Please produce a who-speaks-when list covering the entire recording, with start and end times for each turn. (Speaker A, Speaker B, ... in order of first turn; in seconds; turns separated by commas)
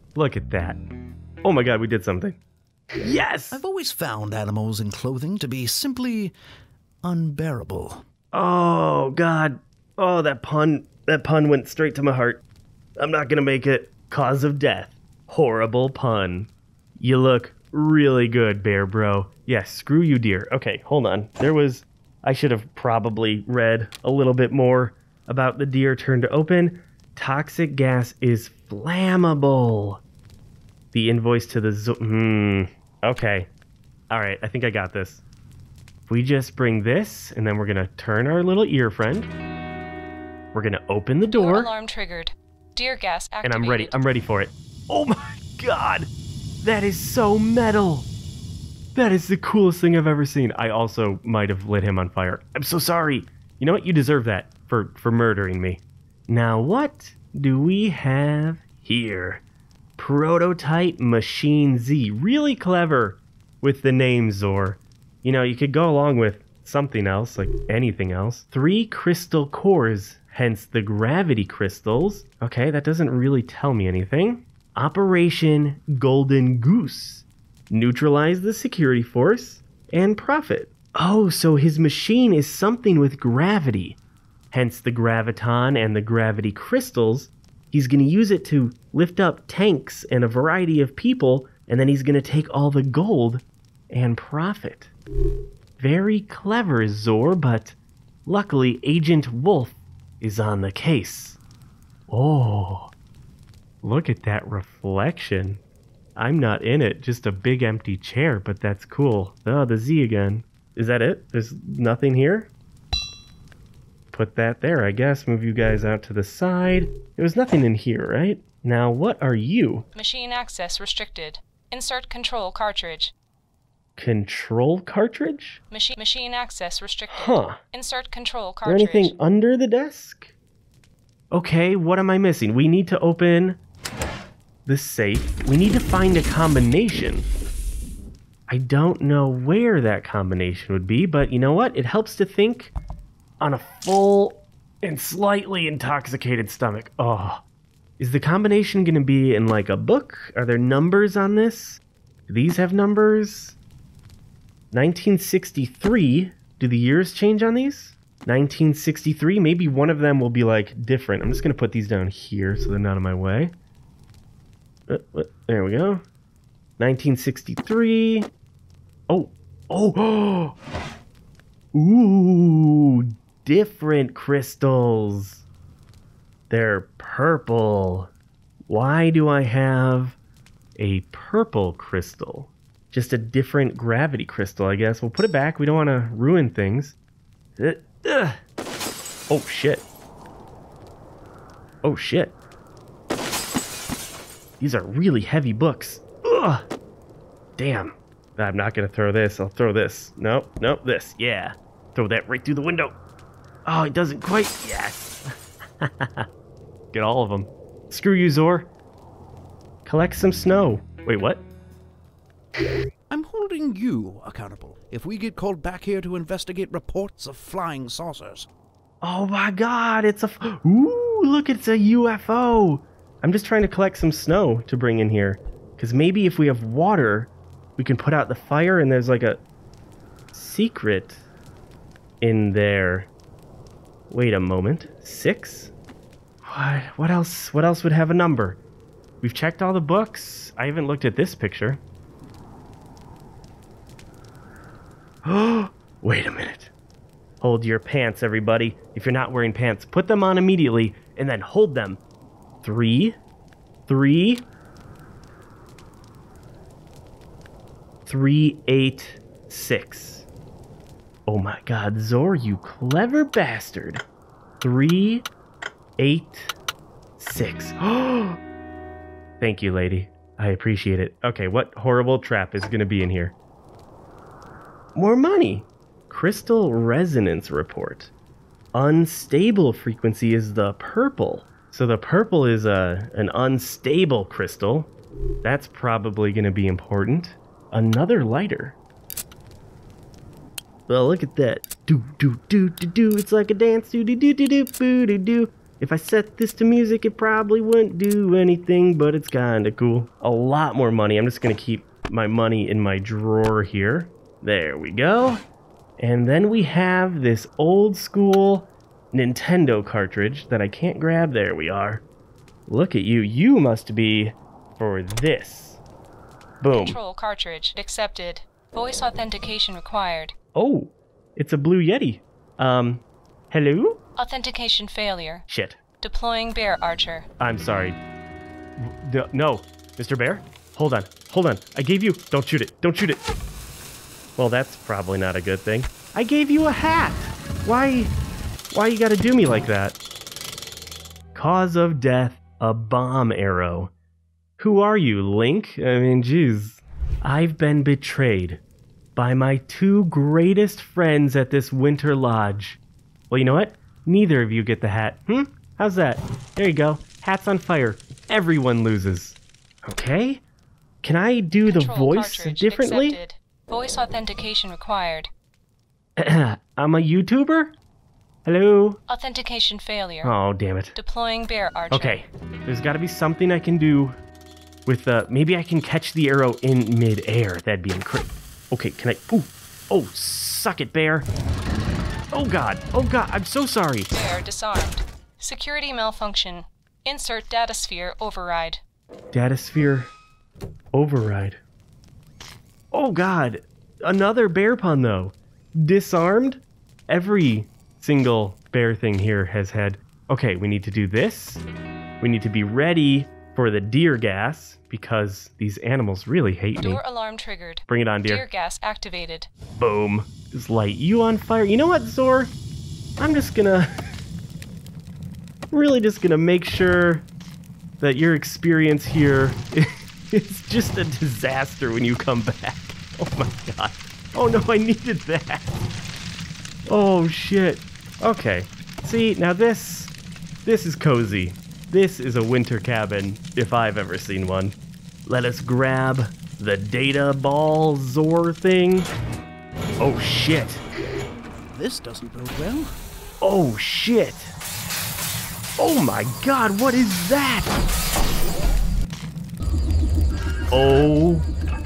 Speaker A: 0.1-0.8, Speaker A: 1.4-2.4, Speaker A: 2.9-3.6, Speaker B: 3.5-6.3, Speaker B: 7.0-8.0, Speaker A: 8.3-12.4, Speaker A: 13.0-30.0, Speaker A: 30.9-33.5, Speaker A: 34.1-35.2, Speaker A: 36.1-39.3, Speaker A: 40.5-41.7, Speaker C: 41.3-43.9, Speaker A: 43.4-46.1, Speaker A: 46.6-48.1, Speaker A: 48.9-59.4, Speaker A: 60.0-84.0, Speaker A: 84.5-94.9, Speaker A: 95.8-101.4, Speaker A: 102.1-102.9, Speaker A: 103.8-105.6, Speaker A: 106.2-112.5, Speaker A: 114.1-119.8, Speaker C: 119.9-123.1, Speaker A: 124.0-125.6, Speaker C: 125.7-129.1, Speaker A: 127.1-127.6, Speaker A: 128.6-130.3, Speaker A: 131.3-133.6, Speaker A: 134.7-137.3, Speaker A: 138.5-142.7, Speaker A: 143.4-147.4, Speaker A: 148.0-153.6, Speaker A: 154.7-163.5, Speaker A: 164.9-166.0, Speaker A: 166.8-168.3, Speaker A: 169.1-170.5, Speaker A: 171.7-175.4, Speaker A: 176.5-178.1, Speaker A: 178.7-180.2, Speaker A: 180.8-186.9, Speaker A: 187.6-188.4, Speaker A: 189.3-189.8, Speaker A: 191.8-192.3, Speaker A: 194.6-196.7, Speaker A: 197.6-202.9, Speaker A: 203.7-205.3, Speaker A: 205.8-206.3, Speaker A: 206.9-208.7, Speaker A: 209.8-211.4, Speaker B: 213.1-218.5, Speaker A: 219.0-229.4, Speaker A: 230.3-231.2, Speaker A: 232.2-233.1, Speaker A: 234.1-235.7, Speaker A: 236.4-238.6, Speaker A: 239.2-241.8, Speaker A: 245.2-246.7, Speaker A: 247.4-252.0, Speaker A: 252.6-253.2, Speaker A: 253.9-254.4, Speaker A: 258.1-260.2, Speaker A: 261.3-264.0, Speaker A: 264.6-265.3, Speaker A: 266.0-266.5, Speaker A: 267.2-268.4, Speaker A: 269.4-273.3, Speaker A: 274.9-278.1, Speaker A: 278.7-284.9, Speaker A: 285.4-288.8, Speaker A: 290.9-305.4, Speaker A: 306.0-312.0, Speaker A: 312.7-315.8, Speaker A: 316.6-317.0, Speaker C: 316.7-320.3, Speaker A: 320.5-324.0, Speaker C: 324.2-325.4, Speaker A: 325.5-325.8, Speaker C: 326.0-327.2, Speaker A: 327.4-328.0, Speaker A: 328.8-333.2, Speaker A: 334.4-338.1, Speaker A: 338.7-340.0, Speaker A: 341.3-343.9, Speaker A: 344.6-348.6, Speaker A: 349.1-352.8, Speaker A: 353.3-360.4, Speaker A: 361.0-363.2, Speaker C: 361.7-365.3, Speaker A: 366.2-367.7, Speaker A: 368.4-369.0, Speaker C: 369.1-370.3, Speaker A: 370.2-370.9, Speaker C: 370.9-372.2, Speaker A: 371.9-374.2, Speaker A: 374.9-381.3, Speaker A: 382.3-384.1, Speaker C: 384.1-388.8, Speaker A: 389.3-390.1, Speaker A: 390.9-391.6, Speaker A: 392.9-401.6, Speaker A: 402.2-407.0, Speaker C: 406.8-409.5, Speaker A: 407.9-408.4, Speaker A: 409.8-412.5, Speaker A: 413.2-413.9, Speaker A: 415.7-417.2, Speaker A: 418.0-425.7, Speaker A: 426.9-430.1, Speaker A: 430.6-439.1, Speaker A: 440.0-440.8, Speaker B: 441.6-442.9, Speaker A: 443.4-444.5, Speaker A: 445.8-447.7, Speaker A: 450.7-451.5